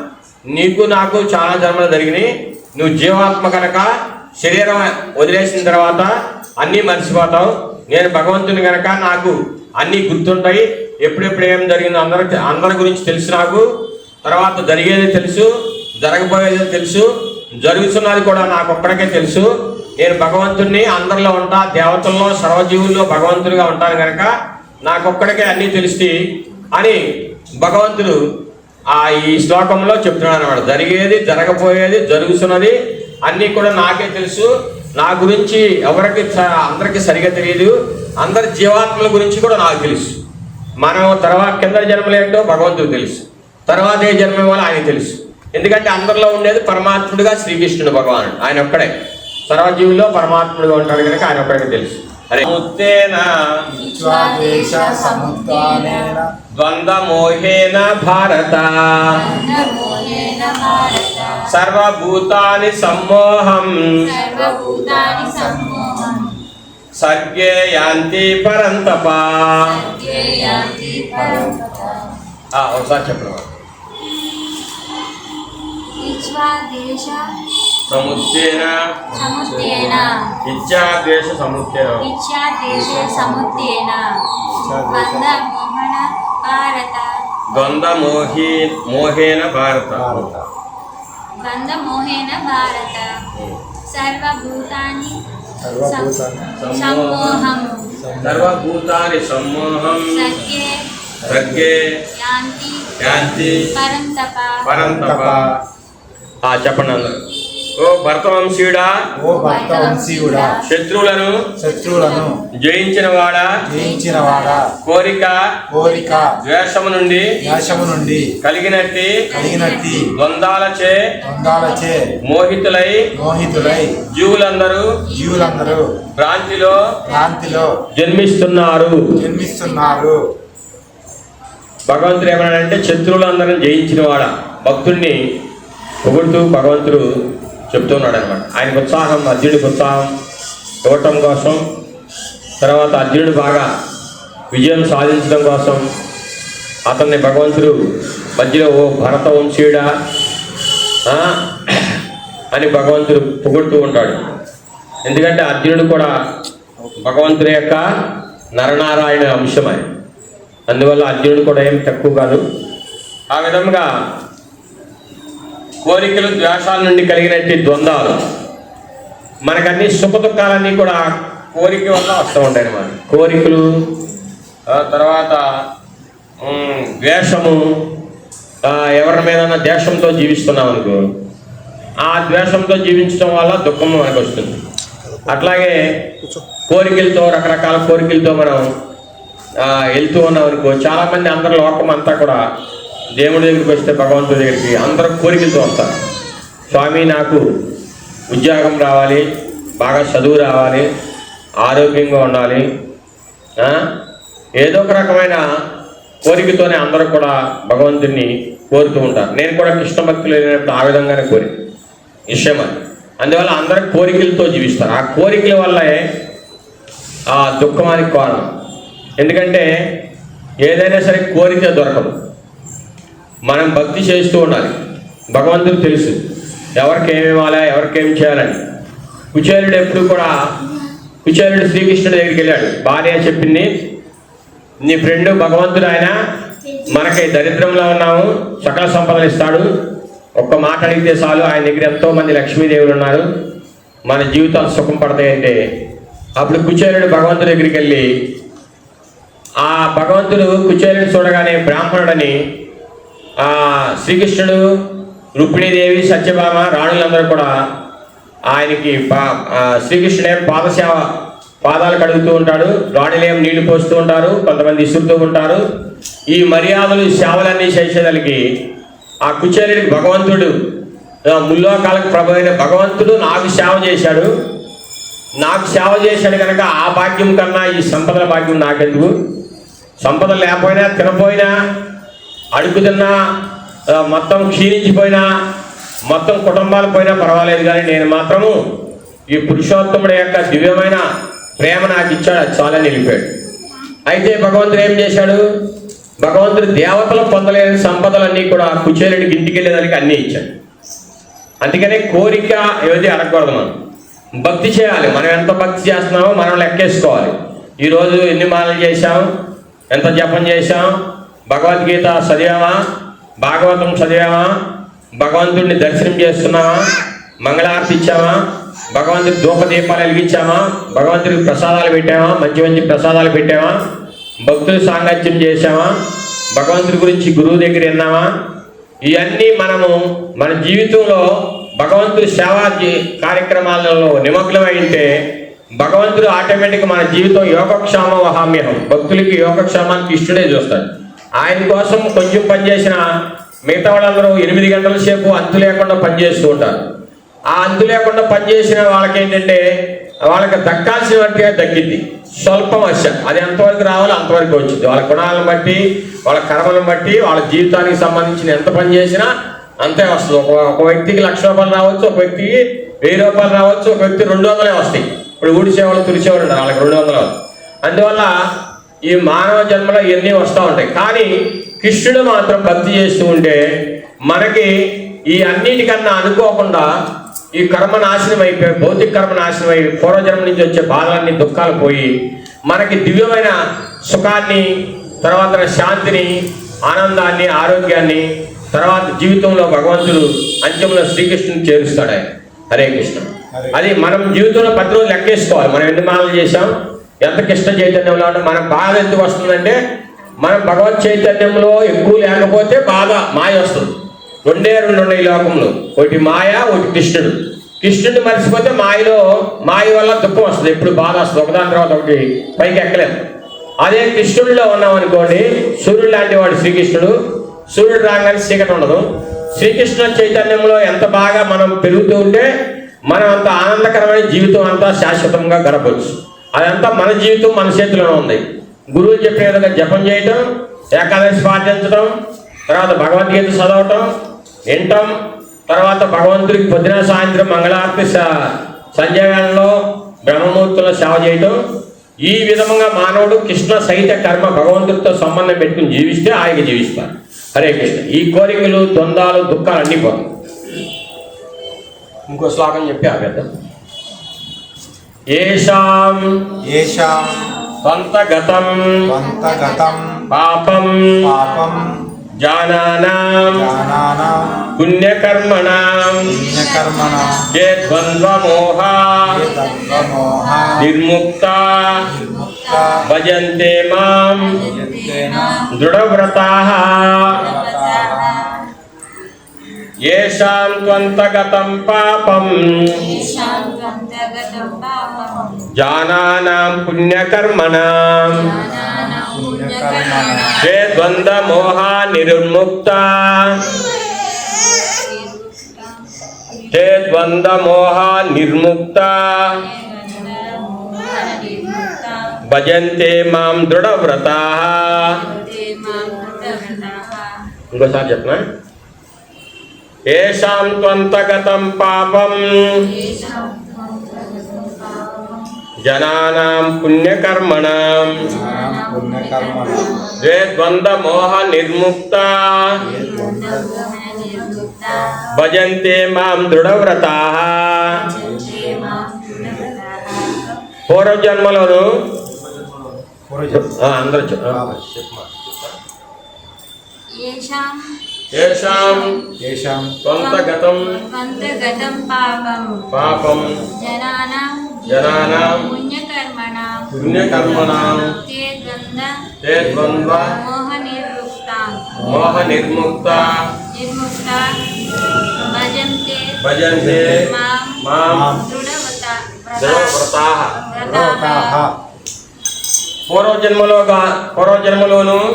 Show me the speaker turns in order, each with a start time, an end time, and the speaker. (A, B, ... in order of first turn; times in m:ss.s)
0:00.5-0:13.7 A
0:14.2-0:15.5 A
0:16.0-0:17.1 A
0:17.6-0:24.3 A
0:24.8-0:26.2 A
0:26.7-0:27.0 A
0:27.6-0:28.2 A
0:28.9-0:40.1 A
0:40.8-0:48.9 A
0:49.5-0:53.4 A
0:53.7-0:56.3 B
0:53.8-0:56.2 C
0:56.5-0:59.1 A
0:59.1-1:01.5 C
1:01.4-1:03.9 A
1:04.0-1:06.4 C
1:04.2-1:06.4 B
1:07.0-1:09.6 A
1:09.6-1:12.2 C
1:10.0-1:12.1 B
1:12.5-1:13.5 A
1:16.0-1:17.4 C
1:17.8-1:18.8 A
1:19.1-1:20.1 B
1:19.1-1:20.3 C
1:20.4-1:22.1 A
1:22.0-1:27.7 C
1:22.7-1:23.7 B
1:24.5-1:25.4 B
1:27.5-1:30.2 A
1:29.9-1:30.5 B
1:31.4-1:33.1 C
1:33.9-1:35.2 C
1:35.6-1:36.5 B
1:35.8-1:38.0 C
1:36.6-1:37.4 A
1:38.0-1:38.5 B
1:38.2-1:40.3 A
1:40.0-1:40.8 C
1:41.2-1:41.7 B
1:41.3-1:41.9 A
1:42.2-1:44.6 C
1:43.0-1:43.7 A
1:43.1-1:43.7 B
1:44.6-1:45.4 A
1:44.7-1:45.5 B
1:46.4-1:47.2 A
1:47.8-1:49.0 A
1:49.2-1:50.6 B
1:49.2-1:50.7 C
1:50.6-1:51.4 A
1:51.6-1:52.4 B
1:51.6-1:52.4 C
1:52.6-1:53.6 A
1:53.6-1:54.7 B
1:53.7-1:54.7 C
1:54.8-1:55.5 A
1:55.7-1:56.4 B
1:55.8-1:56.4 C
1:56.4-1:57.4 A
1:57.4-1:58.2 C
1:57.4-1:58.3 B
1:58.4-1:59.3 A
1:59.2-2:00.1 C
1:59.3-2:00.1 B
2:00.1-2:01.0 A
2:01.2-2:02.0 C
2:01.2-2:02.1 B
2:02.2-2:03.1 A
2:03.1-2:04.1 C
2:03.2-2:04.0 B
2:04.1-2:05.0 A
2:05.0-2:05.8 C
2:05.1-2:05.9 B
2:06.1-2:06.9 A
2:06.9-2:07.8 C
2:07.1-2:07.8 B
2:07.9-2:09.0 A
2:09.2-2:10.2 B
2:09.3-2:10.1 C
2:11.9-2:15.2 A
2:16.0-2:17.1 A
2:17.7-2:20.1 A
2:20.8-2:21.6 A
2:22.6-2:23.7 A
2:24.5-2:25.8 A
2:26.9-2:27.8 A
2:28.3-2:29.9 A
2:31.0-2:32.0 A
2:32.5-2:34.2 A
2:35.0-2:36.1 A
2:37.0-2:37.8 A
2:38.6-2:39.8 A
2:40.7-2:42.4 A
2:43.3-2:43.9 A
2:45.8-2:48.2 A
2:49.4-2:53.7 A
2:54.7-2:55.4 A
2:56.4-2:57.7 A
2:58.6-3:01.0 A
3:02.0-3:04.6 A
3:05.3-3:05.8 A
3:06.7-3:08.6 A
3:09.6-3:12.4 A
3:13.2-3:15.9 A
3:16.7-3:17.4 A
3:18.3-3:19.2 A
3:19.8-3:20.9 A
3:21.6-3:22.6 A
3:23.6-3:23.8 A
3:24.6-3:25.4 A
3:26.2-3:31.5 A
3:32.3-3:36.0 A
3:37.3-3:38.5 A
3:39.2-3:39.7 A
3:40.6-3:42.1 A
3:43.4-3:44.7 A
3:45.3-3:46.2 A
3:46.8-3:48.6 A
3:49.3-3:50.3 A
3:51.2-3:53.7 A
3:54.8-3:56.2 A
3:56.8-3:59.7 A
4:00.4-4:03.2 A
4:04.1-4:05.6 A
4:06.4-4:08.1 A
4:09.6-4:12.4 A
4:13.4-4:14.6 A
4:15.4-4:17.5 A
4:18.5-4:21.0 A
4:21.6-4:25.6 A
4:26.3-4:28.4 A
4:29.2-4:30.5 A
4:31.3-4:34.3 A
4:35.4-4:39.1 A
4:40.0-4:41.5 A
4:42.5-4:43.1 A
4:43.9-4:45.2 A
4:46.1-4:48.6 A
4:49.3-4:51.0 A
4:51.6-4:53.3 A
4:54.0-4:55.4 A
4:56.2-5:00.5 A
5:01.6-5:03.7 A
5:04.4-5:09.3 A
5:09.9-5:10.9 A
5:11.5-5:12.8 A
5:13.4-5:14.5 A
5:15.2-5:16.8 A
5:17.4-5:18.4 A
5:18.9-5:23.8 A
5:24.4-5:25.9 A
5:26.5-5:28.3 A
5:29.0-5:35.2 A
5:35.8-5:43.0 A
5:43.7-5:46.8 A
5:47.5-5:49.6 A
5:50.3-5:59.3 A
5:59.8-6:07.3 A
6:07.8-6:08.3 A
6:09.0-6:13.6 A
6:14.3-6:14.7 A
6:15.3-6:16.9 A
6:17.5-6:22.1 A
6:22.7-6:24.7 A
6:25.2-6:36.7 A
6:37.2-6:39.8 A
6:40.4-6:53.2 A
6:53.8-6:57.1 A
6:57.7-7:02.5 A
7:03.1-7:12.1 A
7:12.7-7:14.1 A
7:14.7-7:15.1 A
7:15.7-7:18.3 A
7:18.9-7:21.6 A
7:22.2-7:30.3 A
7:32.3-7:33.5 A
7:35.3-7:36.3 A
7:36.6-7:37.5 B
7:37.0-7:37.4 C
7:37.8-7:39.0 A
7:39.1-7:40.2 B
7:39.2-7:40.3 C
7:40.3-7:41.2 A
7:41.2-7:42.0 B
7:41.3-7:41.9 C
7:42.4-7:43.6 A
7:43.5-7:44.6 B
7:43.7-7:44.7 C
7:44.7-7:46.2 A
7:46.3-7:47.4 B
7:46.3-7:47.5 C
7:47.5-7:49.2 A
7:49.3-7:50.8 B
7:49.4-7:50.8 C
7:50.8-7:52.0 A
7:52.1-7:53.0 C
7:52.1-7:53.0 B
7:53.1-7:54.5 A
7:54.4-7:55.7 C
7:54.6-7:55.6 B
7:55.7-7:57.3 A
7:57.4-7:58.7 C
7:57.4-7:58.4 B
8:00.0-8:03.0 A
8:02.9-8:05.7 C
8:05.7-8:08.4 A
8:08.3-8:10.9 C
8:08.7-8:10.6 B
8:10.6-8:13.6 A
8:13.6-8:16.7 C
8:16.7-8:19.6 A
8:19.5-8:22.4 C
8:22.5-8:25.2 A
8:25.1-8:27.4 C
8:27.7-8:28.4 A
8:30.1-8:32.8 A
8:32.8-8:35.6 C
8:35.8-8:38.2 A
8:38.2-8:39.9 B
8:38.2-8:40.2 C
8:40.2-8:42.8 A
8:42.8-8:43.8 B
8:42.8-8:45.3 C
8:45.3-8:48.1 A
8:47.9-8:50.6 C
8:48.2-8:49.7 B
8:50.9-8:51.9 A
8:53.3-8:53.8 B
8:53.5-8:55.7 A
8:54.5-8:54.8 B
8:57.1-8:59.3 C
8:58.3-8:59.1 A
8:59.4-9:00.0 B
9:00.0-9:01.0 A
9:00.1-9:02.9 C
9:02.9-9:03.6 A
9:03.0-9:03.7 B
9:03.7-9:09.2 C
9:04.8-9:05.6 A
9:06.9-9:07.8 B
9:07.0-9:08.1 A
9:09.4-9:10.3 A
9:09.6-9:10.2 B
9:09.9-9:12.5 C
9:12.0-9:13.4 A
9:12.0-9:12.3 B
9:13.7-9:16.3 C
9:16.4-9:17.3 A
9:16.7-9:17.2 B
9:17.1-9:21.6 C
9:17.8-9:18.3 A
9:18.1-9:18.4 B
9:19.6-9:20.6 A
9:20.8-9:21.7 B
9:23.1-9:25.2 A